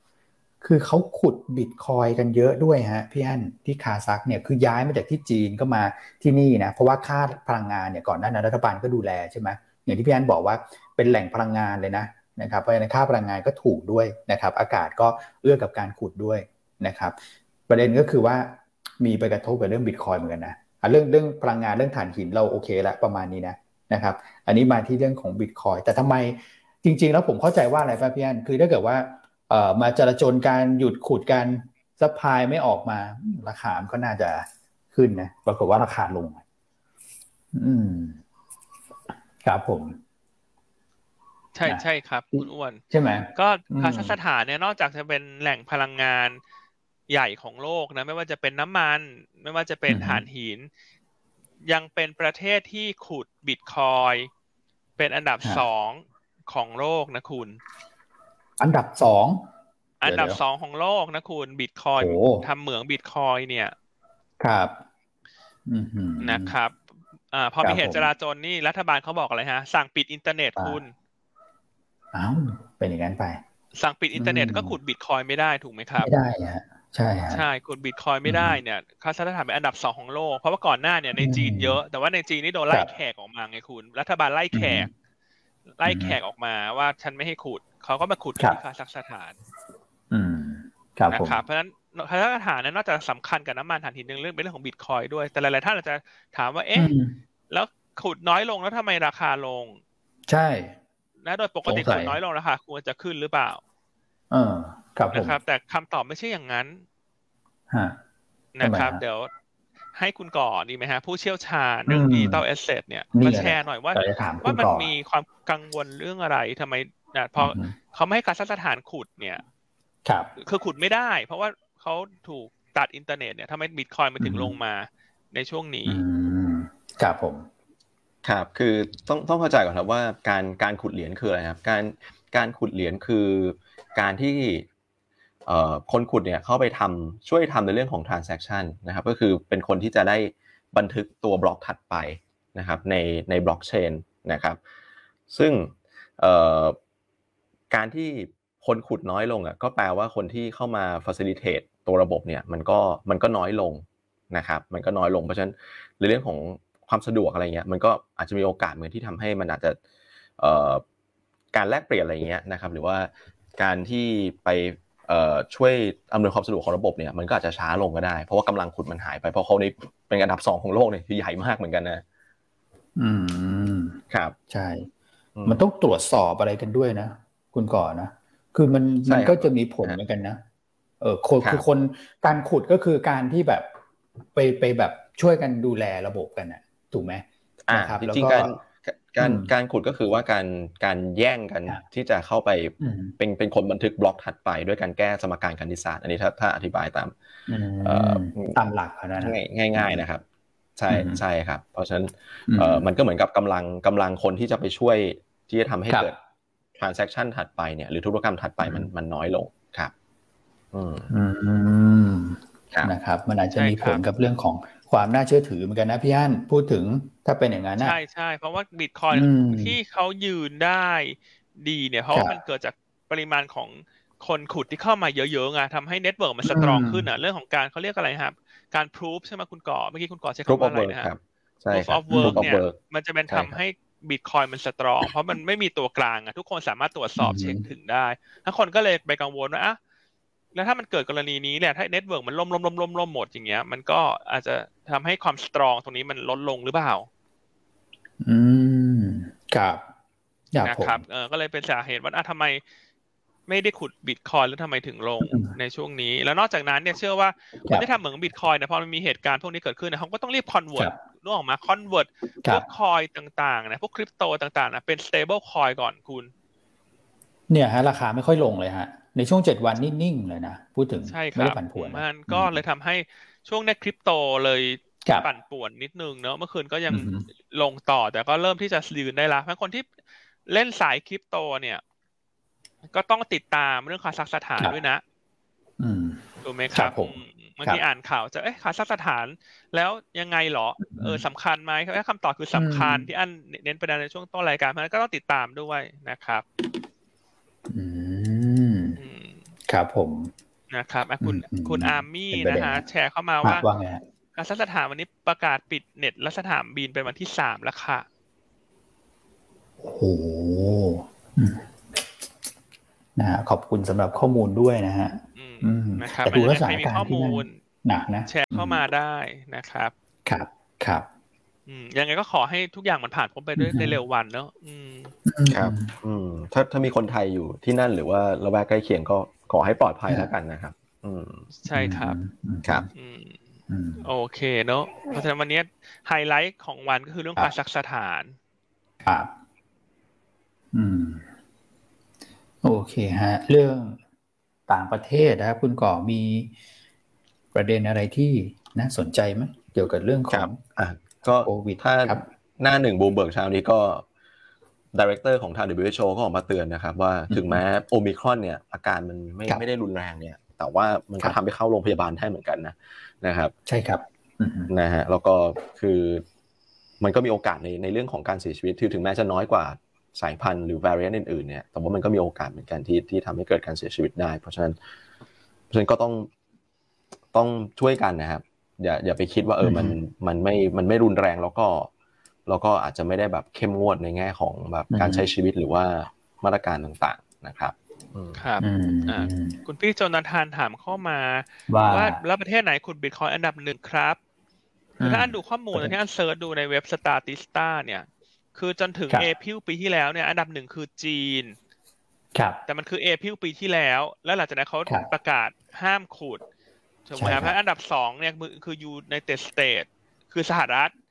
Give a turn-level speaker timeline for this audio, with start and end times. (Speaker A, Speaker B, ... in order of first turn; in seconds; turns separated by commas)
Speaker A: 0.6-17.1, Speaker A: 17.7-36.4, Speaker A: 37.5-38.2, Speaker A: 39.4-40.0, Speaker B: 41.5-42.8, Speaker A: 42.3-44.1, Speaker B: 43.3-46.4, Speaker B: 47.1-50.7, Speaker A: 49.9-50.2, Speaker B: 51.7-54.3, Speaker B: 55.0-57.6, Speaker A: 58.6-59.4, Speaker B: 60.0-63.7, Speaker A: 60.0-60.4, Speaker A: 62.0-62.4, Speaker A: 64.4-64.8, Speaker A: 65.7-66.5, Speaker B: 66.2-66.8, Speaker B: 67.3-70.9, Speaker A: 67.6-68.1, Speaker A: 72.1-73.4, Speaker B: 73.7-76.1, Speaker A: 74.2-74.8, Speaker A: 76.0-77.4, Speaker B: 77.3-84.9, Speaker A: 78.2-78.6, Speaker A: 81.2-81.8, Speaker A: 84.5-84.9, Speaker B: 85.8-89.3, Speaker A: 85.8-86.2, Speaker A: 90.1-91.4, Speaker B: 91.1-96.9, Speaker A: 96.7-97.2, Speaker B: 97.5-99.8, Speaker A: 100.3-100.8, Speaker B: 101.2-103.6, Speaker A: 101.7-102.2, Speaker A: 104.3-105.3, Speaker B: 105.1-106.8, Speaker A: 107.7-108.0, Speaker B: 108.5-109.3, Speaker A: 108.6-109.0, Speaker B: 109.9-119.4, Speaker A: 111.9-112.4, Speaker A: 113.1-114.9, Speaker A: 117.4-117.7, Speaker A: 120.0-120.3, Speaker B: 120.4-126.0, Speaker A: 124.2-124.5, Speaker A: 125.9-127.5, Speaker C: 128.2-134.7, Speaker C: 135.4-144.6, Speaker C: 145.3-146.8, Speaker C: 147.7-159.8, Speaker C: 160.4-160.8, Speaker C: 161.5-172.0, Speaker A: 173.0-174.9, Speaker C: 174.1-174.3, Speaker A: 175.4-180.4, Speaker C: 179.1-180.0, Speaker A: 181.0-183.7, Speaker A: 184.3-188.5, Speaker C: 187.7-197.1, Speaker A: 189.2-189.5, Speaker A: 192.8-193.1, Speaker A: 197.5-200.0, Speaker C: 197.8-198.6, Speaker C: 199.2-200.2, Speaker C: 200.8-206.2, Speaker A: 200.9-201.2, Speaker A: 202.5-202.9, Speaker C: 206.8-209.9, Speaker A: 208.6-208.9, Speaker C: 210.7-211.1, Speaker A: 211.1-218.0, Speaker B: 213.6-214.0, Speaker B: 217.8-231.1, Speaker A: 219.1-219.8, Speaker A: 226.4-227.1, Speaker C: 230.5-232.8, Speaker B: 231.7-239.8, Speaker A: 232.1-232.4, Speaker C: 233.3-233.6, Speaker A: 237.2-237.6, Speaker B: 240.5-247.1, Speaker A: 248.2-249.8, Speaker A: 250.5-251.0, Speaker B: 250.6-252.6, Speaker B: 253.5-266.3, Speaker A: 255.2-255.5, Speaker A: 267.5-272.6, Speaker B: 271.1-279.9, Speaker A: 276.9-277.2, Speaker B: 280.5-281.8, Speaker B: 282.9-285.0, Speaker A: 285.8-287.8, Speaker B: 286.4-296.4, Speaker A: 290.8-291.2, Speaker A: 292.5-293.1, Speaker A: 297.7-299.0, Speaker B: 299.0-299.4, Speaker A: 299.7-300.3, Speaker B: 300.7-303.6, Speaker A: 301.2-302.8, Speaker A: 303.4-304.0, Speaker B: 304.4-308.0, Speaker A: 309.8-311.7, Speaker A: 313.2-318.8, Speaker B: 315.4-317.5, Speaker B: 318.3-319.9, Speaker A: 320.2-321.1, Speaker B: 321.7-325.1, Speaker A: 323.6-324.0, Speaker A: 325.2-325.9, Speaker C: 325.5-331.5, Speaker B: 331.6-332.2, Speaker A: 331.7-332.9, Speaker B: 332.9-333.4, Speaker A: 333.7-334.1, Speaker B: 334.0-338.4, Speaker A: 339.0-339.3, Speaker A: 340.7-341.3, Speaker A: 342.6-344.0, Speaker A: 344.7-346.5, Speaker A: 347.5-350.6, Speaker C: 350.3-354.0, Speaker A: 351.3-352.2, Speaker C: 354.9-363.5, Speaker A: 357.3-357.6, Speaker A: 363.7-364.7, Speaker C: 364.7-366.2, Speaker C: 367.0-374.8, Speaker C: 375.7-376.3, Speaker C: 377.3-381.9, Speaker A: 379.6-379.9, Speaker C: 382.5-388.4, Speaker A: 384.9-385.3, Speaker B: 388.4-394.2, Speaker A: 388.6-389.6, Speaker A: 391.7-392.2, Speaker A: 395.0-395.9, Speaker B: 395.0-401.6, Speaker A: 402.3-402.6, Speaker B: 402.7-406.4, Speaker B: 407.1-410.9, Speaker A: 407.2-407.5